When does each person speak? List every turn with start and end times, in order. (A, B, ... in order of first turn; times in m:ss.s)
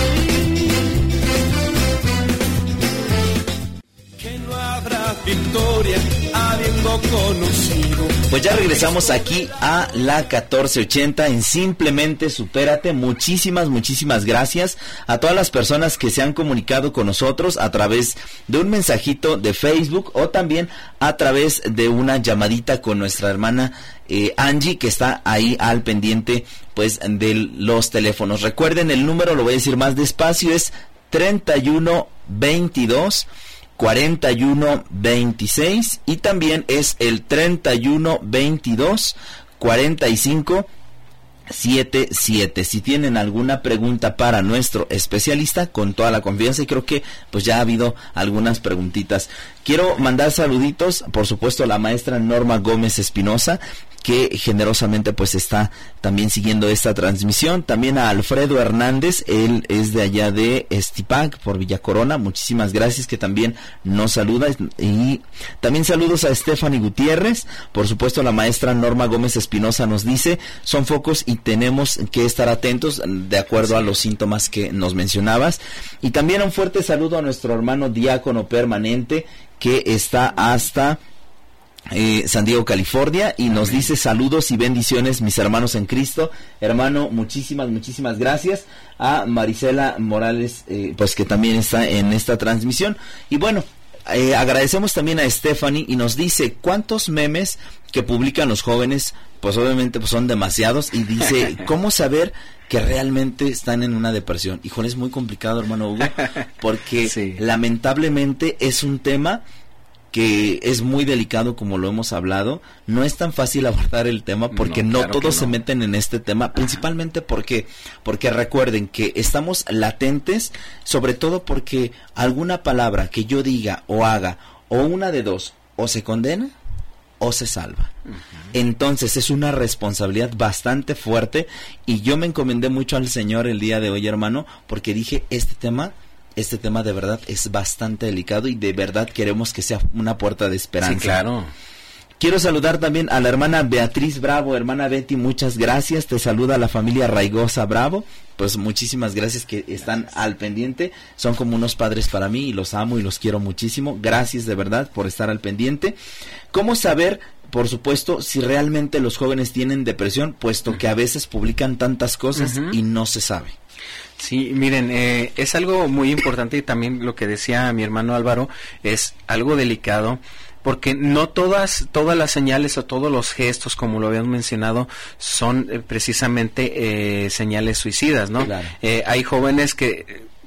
0:04.2-0:09.1 A
0:08.3-0:40.7 B
0:41.5-1:21.0 B
1:21.9-1:49.4 B
1:47.0-1:47.4 C
1:50.1-2:06.6 B
1:54.5-1:55.6 C
2:07.2-2:07.9 B
2:08.5-2:21.2 B
2:20.8-2:21.5 C
2:22.2-2:36.0 B
2:36.5-2:43.6 B
2:42.4-2:42.8 C
2:44.2-3:00.3 C
2:58.4-2:58.8 B